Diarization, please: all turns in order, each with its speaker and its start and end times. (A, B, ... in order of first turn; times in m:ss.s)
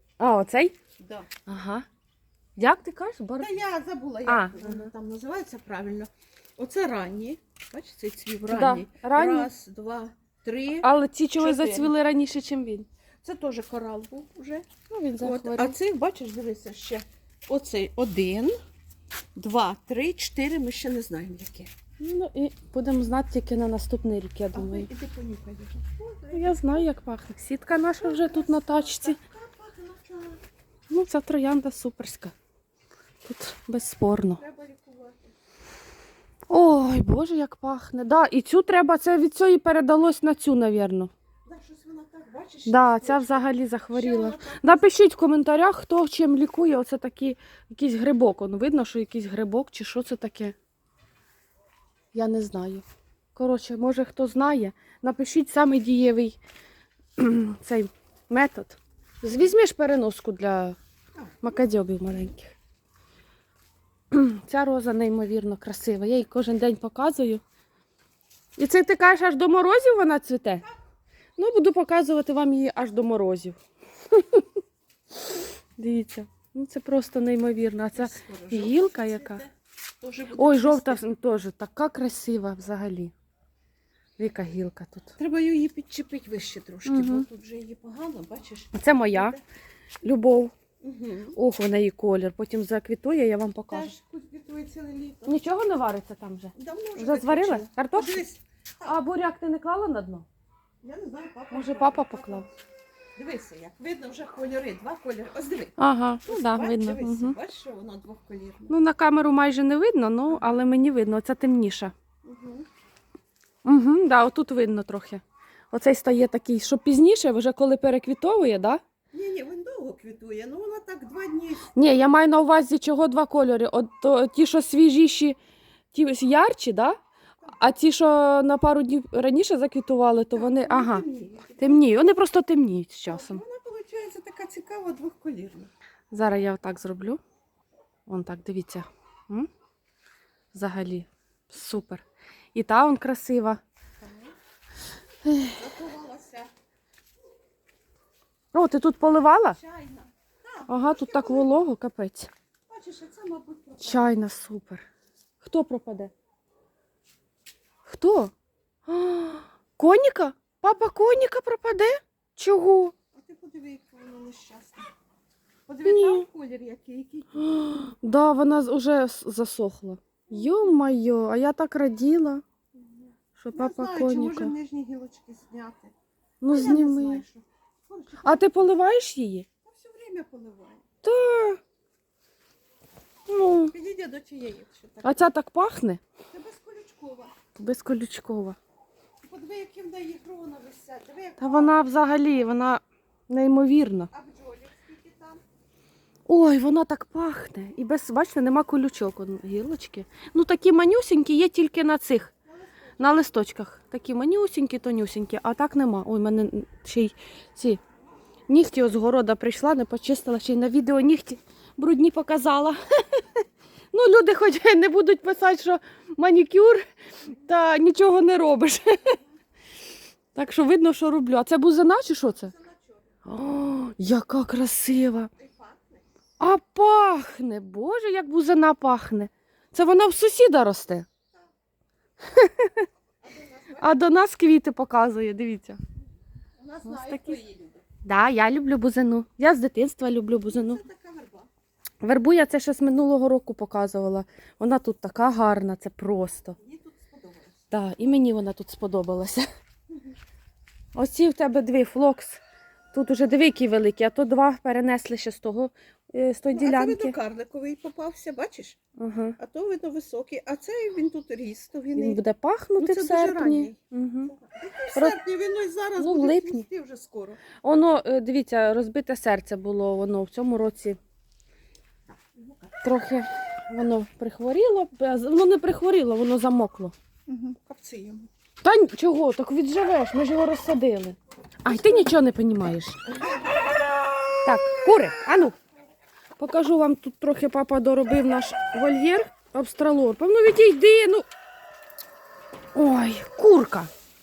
0:00.2-0:00.7 A
0:01.0-0:01.3 B
0:01.4-0:01.8 A
0:02.6-0:03.5 A
0:03.4-0:11.9 B
0:04.2-0:04.9 A
0:08.5-0:09.5 A
0:10.8-0:12.9 A
0:13.2-0:18.6 B
0:14.9-0:15.8 A
0:19.4-0:21.7 B
0:22.0-0:24.9 A
0:24.5-0:26.9 B
0:26.3-0:29.2 A
0:28.0-0:30.4 B
0:30.9-0:32.3 A
0:33.2-0:34.4 A
0:34.4-0:35.3 B
0:36.5-0:41.1 A
0:41.5-0:44.9 B
0:42.7-0:50.5 A
0:52.1-0:56.4 A
0:57.2-1:00.8 A
1:01.4-1:02.5 A
1:04.1-1:07.4 A
1:08.6-1:10.6 A
1:11.4-1:13.6 A
1:14.1-1:14.5 A
1:15.2-1:19.4 A
1:17.9-1:19.5 B
1:20.0-1:21.0 B
1:20.4-1:23.1 A
1:24.2-1:25.1 A
1:25.2-1:29.4 B
1:26.8-1:27.3 A
1:28.7-1:29.4 A
1:30.0-1:30.5 A
1:30.8-1:31.4 B
1:31.3-1:33.9 A
1:33.7-1:35.4 B
1:35.2-1:38.2 A
1:36.5-1:39.0 B
1:38.8-1:40.3 A
1:40.8-1:42.5 B
1:41.5-1:42.5 A
1:43.2-1:48.7 B
1:45.8-1:47.4 A
1:48.7-1:51.9 A
1:52.2-1:52.7 B
1:53.6-1:58.8 A
1:59.1-2:01.7 B
2:01.7-2:05.4 A
2:05.9-2:07.0 A
2:07.6-2:11.0 A
2:10.3-2:11.9 B
2:11.6-2:13.4 A
2:13.1-2:15.7 B
2:16.1-2:17.2 A
2:18.1-2:19.5 A
2:20.5-2:22.0 A
2:22.5-2:23.6 A
2:24.0-2:24.3 B
2:25.2-2:25.6 A
2:25.4-2:26.5 B
2:28.5-2:29.6 A
2:29.5-2:31.5 B
2:30.7-2:32.3 A
2:32.7-2:34.2 B
2:33.8-2:34.8 A
2:35.4-2:36.1 A
2:37.8-2:38.3 A
2:38.9-2:42.9 A
2:43.1-2:44.9 B
2:45.7-2:47.5 B
2:45.8-2:46.2 A
2:47.4-2:52.4 A
2:50.3-2:50.8 B
2:52.7-2:55.9 B
2:53.4-2:54.5 A
2:56.4-2:57.2 A
2:56.5-2:58.7 B
2:58.2-2:59.5 A
2:59.6-3:00.8 B
3:01.0-3:01.6 A
3:03.3-3:03.7 A
3:03.7-3:05.3 B
3:05.0-3:06.0 A
3:06.3-3:07.4 B
3:07.5-3:08.6 A
3:09.2-3:11.9 B
3:11.4-3:14.1 A
3:14.1-3:15.4 B
3:16.3-3:22.3 A
3:22.4-3:23.2 B
3:23.0-3:27.8 A
3:28.5-3:39.2 A
3:40.3-3:42.5 A
3:42.3-3:43.1 B
3:43.2-3:45.3 A
3:45.4-3:46.0 B
3:46.4-3:51.1 A
3:52.2-3:52.8 A
3:53.2-3:54.1 B
3:53.8-3:55.8 A
3:56.6-3:57.8 B
3:56.8-3:57.4 A
3:58.0-4:00.8 A
4:00.5-4:01.5 B
4:02.0-4:06.6 A
4:06.6-4:07.7 B
4:07.7-4:09.5 A
4:10.9-4:12.4 A
4:12.9-4:17.1 A
4:16.5-4:18.8 B
4:19.0-4:19.4 A
4:19.4-4:22.2 B
4:22.0-4:24.3 A
4:22.8-4:27.4 B
4:26.0-4:26.6 A
4:27.6-4:31.0 A
4:32.1-4:32.8 B
4:32.8-4:36.9 A
4:37.3-4:38.3 B
4:38.6-4:43.0 A
4:41.7-4:42.1 B
4:44.4-4:45.6 A
4:46.4-4:51.2 A
4:52.7-4:53.9 A